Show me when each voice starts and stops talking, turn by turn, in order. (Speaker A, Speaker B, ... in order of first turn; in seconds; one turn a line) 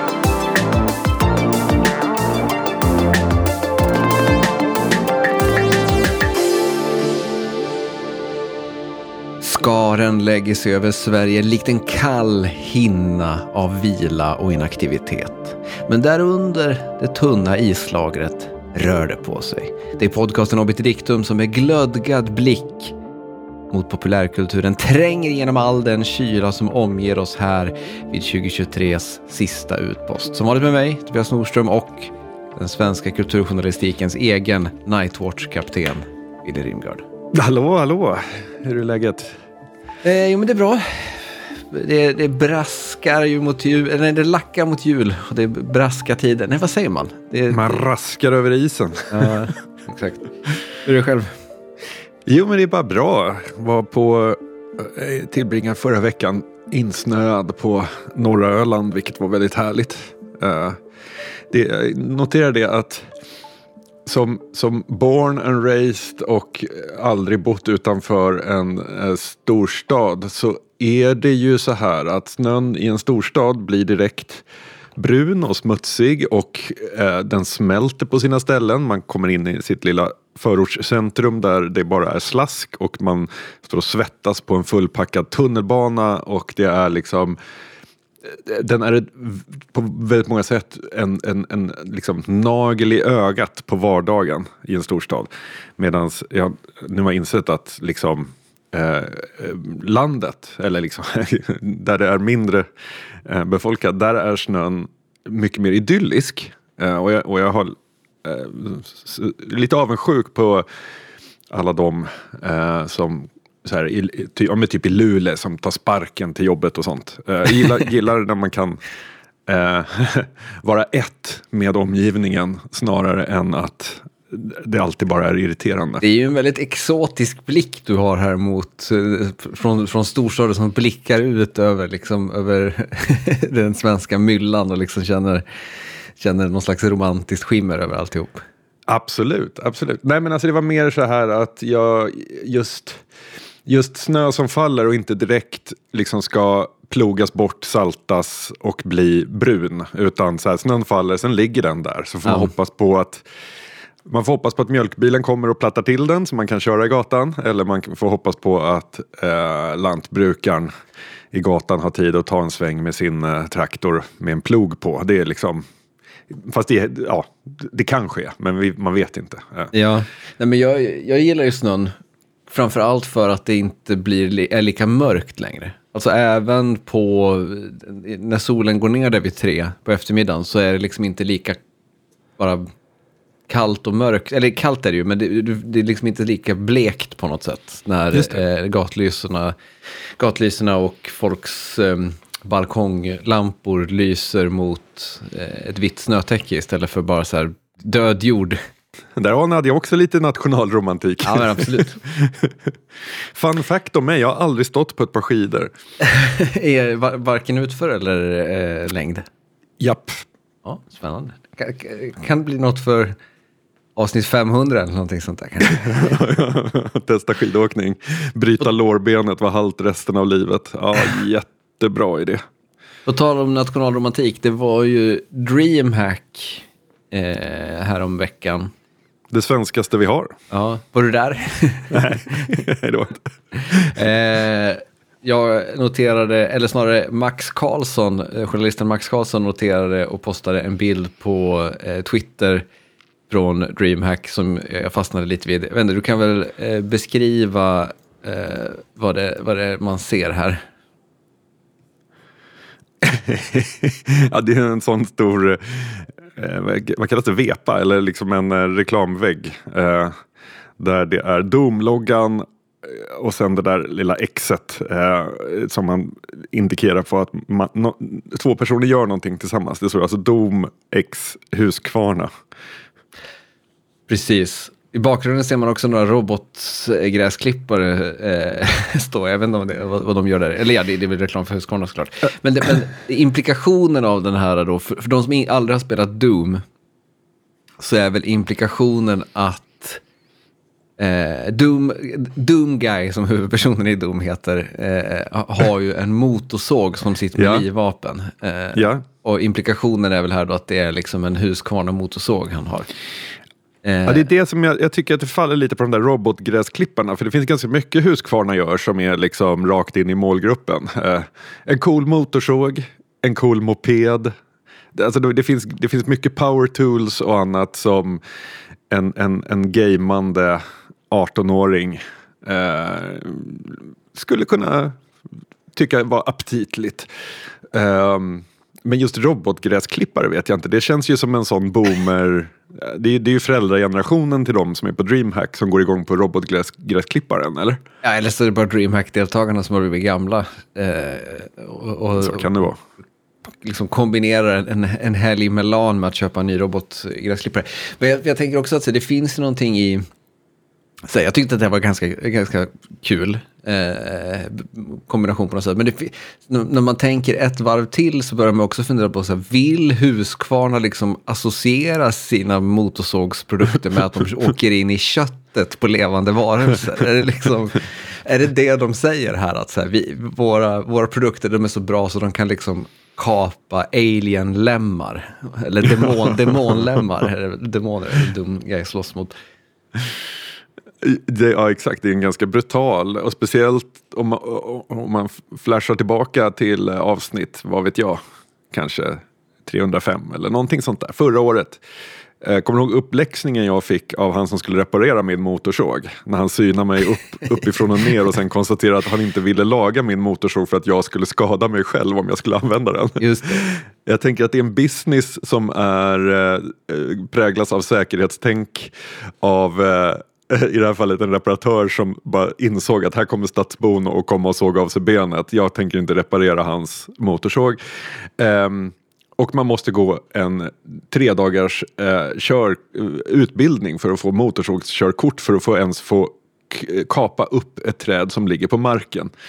Speaker A: 9.4-23.0
Speaker A: 23.7-37.0
Speaker B: 37.3-39.3
Speaker A: 40.0-47.8
Speaker B: 47.5-49.4
Speaker A: 49.1-51.4
Speaker B: 52.2-60.8
Speaker B: 61.5-63.1
Speaker B: 64.0-74.5
Speaker B: 75.0-87.4
Speaker B: 88.2-102.7
Speaker B: 103.3-110.7
Speaker B: 111.5-118.8
Speaker B: 119.5-126.0
Speaker A: 126.0-135.4
Speaker A: 136.2-138.4
Speaker B: 138.9-143.0
Speaker B: 143.7-153.2
Speaker A: 152.2-152.5
Speaker B: 154.0-160.7
Speaker B: 161.3-165.6
Speaker B: 166.3-169.7
Speaker A: 169.7-171.9
Speaker A: 172.5-181.6
Speaker A: 182.4-182.7
Speaker A: 183.5-189.5
Speaker B: 188.1-188.4
Speaker A: 190.2-198.6
Speaker B: 199.2-202.7
Speaker A: 201.2-202.0
Speaker B: 203.3-205.7
Speaker A: 206.0-209.2
Speaker B: 209.8-210.2
Speaker A: 210.6-213.1
Speaker A: 213.9-216.1
Speaker B: 215.7-222.4
Speaker A: 223.1-228.7
Speaker B: 229.3-230.4
Speaker A: 230.5-232.6
Speaker B: 231.9-234.0
Speaker A: 233.7-242.6
Speaker A: 243.3-250.6
Speaker B: 253.0-260.1
Speaker B: 260.8-272.3
Speaker A: 274.1-286.6
Speaker A: 287.8-290.0
Speaker A: 291.0-302.9
Speaker B: 297.4-297.6
Speaker B: 298.8-299.0
Speaker A: 303.8-304.2
Speaker B: 304.1-314.3
Speaker B: 314.9-318.2
Speaker B: 318.9-325.0
Speaker B: 325.7-327.1
Speaker B: 327.7-337.8
Speaker A: 338.0-342.5
Speaker B: 342.2-342.8
Speaker A: 343.6-350.0
Speaker A: 351.1-379.3
Speaker B: 381.0-391.8
Speaker B: 392.4-417.8
Speaker A: 403.2-403.6
Speaker B: 418.4-429.3